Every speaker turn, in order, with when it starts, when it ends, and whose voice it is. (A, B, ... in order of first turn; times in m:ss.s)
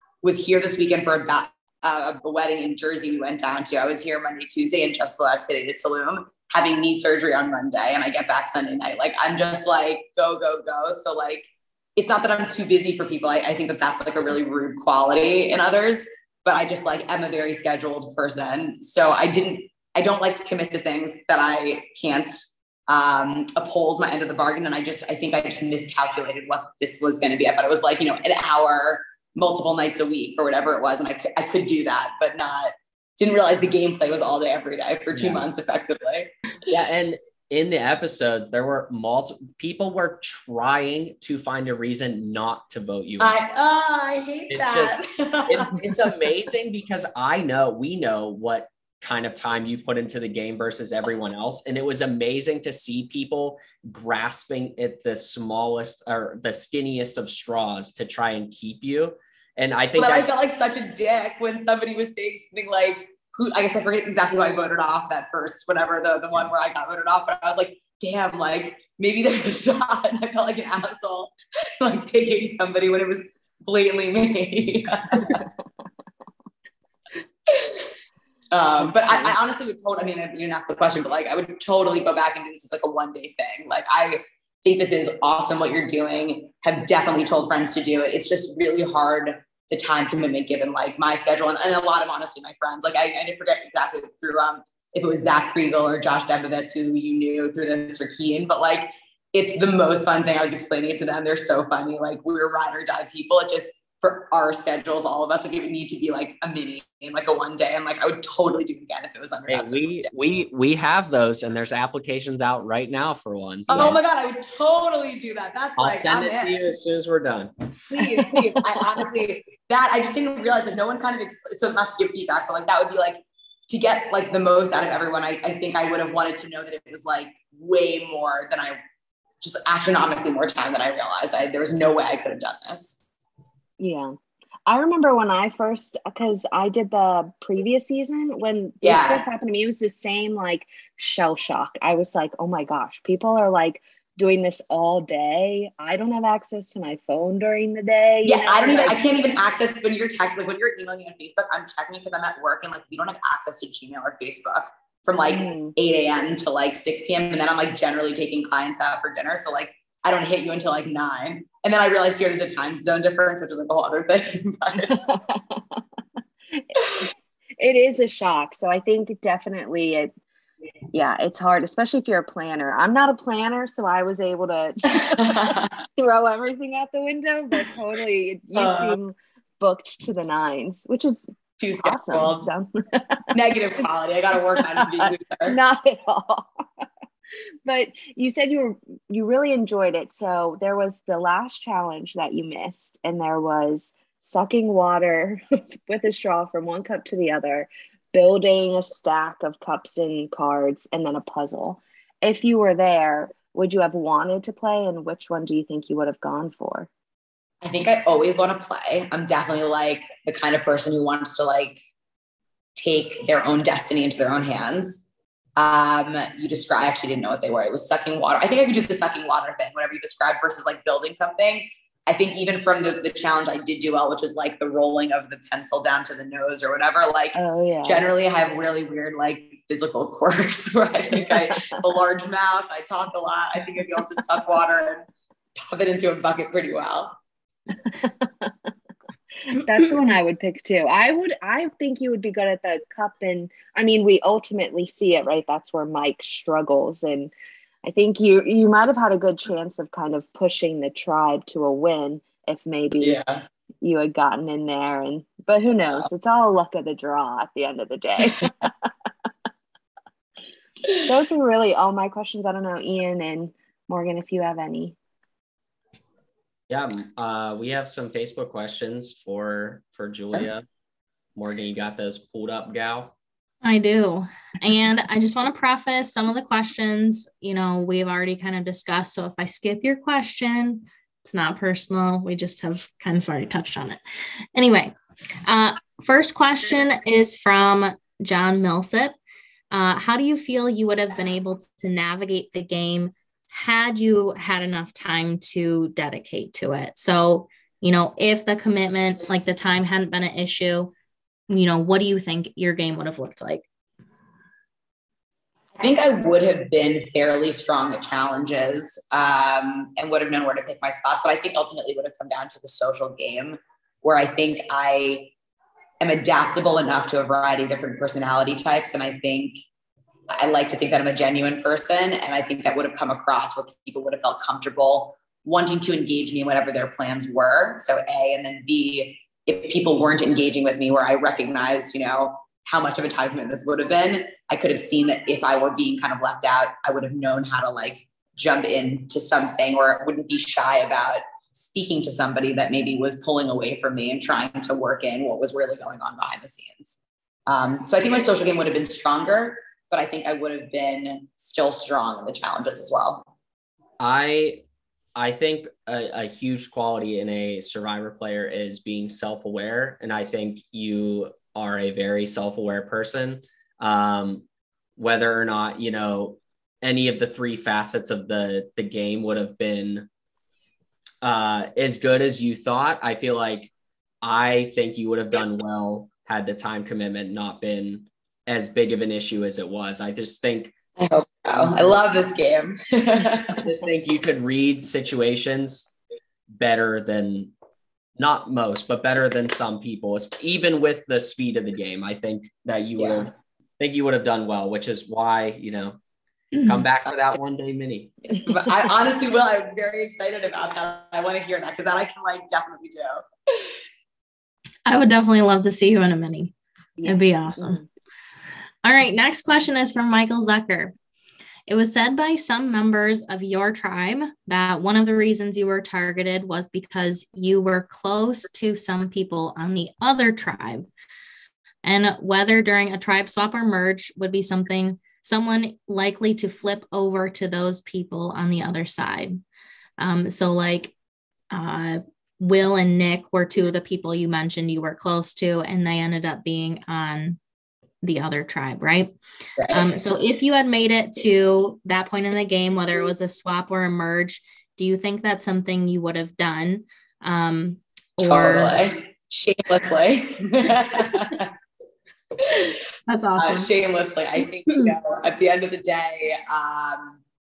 0:00.2-0:36.3 A
0:35.1-0:35.5 B
0:36.7-0:43.3 B
0:43.2-0:45.9 A
0:44.5-0:45.0 B
0:45.5-1:00.3 B
1:00.0-1:15.4 A
1:17.5-1:17.9 A
1:18.5-1:50.1 A
1:18.8-1:19.3 C
1:49.5-1:54.0 B
1:53.7-1:56.6 A
1:55.8-1:57.5 B
1:57.9-2:08.8 A
2:09.4-2:13.0 A
2:13.8-2:14.1 C
2:14.6-2:29.0 C
2:18.8-2:19.2 A
2:28.2-2:45.1 A
2:35.3-2:35.7 C
2:44.9-2:45.8 C
2:47.6-2:50.1 C
2:50.9-3:01.3 C
2:55.0-2:55.8 A
2:58.5-2:59.0 A
3:01.6-3:02.5 A
3:01.8-3:03.2 C
3:03.3-3:05.6 A
3:04.6-3:06.5 C
3:07.6-3:26.9 C
3:27.6-3:31.8 A
3:32.8-3:35.0 A
3:35.6-3:55.0 A
3:47.3-3:48.0 C
3:55.6-3:57.2 A
3:58.0-3:58.5 C
3:59.5-4:07.3 C
4:07.8-4:13.2 C
4:13.0-4:13.4 A
4:13.8-4:18.7 C
4:21.0-4:25.0 C
4:26.7-4:30.6 B
4:31.4-4:33.1 B
4:33.6-4:44.0 D
4:44.5-4:44.9 D
4:45.4-4:49.2 D
4:49.7-5:00.9 D
5:01.5-5:03.7 D
5:05.8-5:15.3 A
5:16.0-5:19.6 A
5:20.3-5:53.3 A
5:54.0-5:54.6 B
5:55.2-6:04.4 B
6:05.0-6:10.1 B
6:11.2-6:20.7 B
6:21.0-6:23.6 A
6:23.6-6:25.9 B
6:26.5-6:27.5 B
6:28.2-6:36.0 B
6:33.0-6:33.3 A
6:36.6-6:38.2 B
6:38.3-6:43.2 A
6:44.8-6:46.5 D
6:47.0-6:47.8 C
6:47.0-6:47.8 D
6:48.8-6:50.9 D
6:51.7-7:00.9 D
7:01.8-7:09.4 D
7:10.0-7:10.9 D
7:11.5-7:17.4 D
7:18.0-7:19.2 D
7:19.6-7:19.9 A
7:19.7-7:28.8 D
7:28.2-7:31.5 A
7:33.1-7:33.7 D
7:33.4-7:37.2 A
7:34.7-7:34.9 D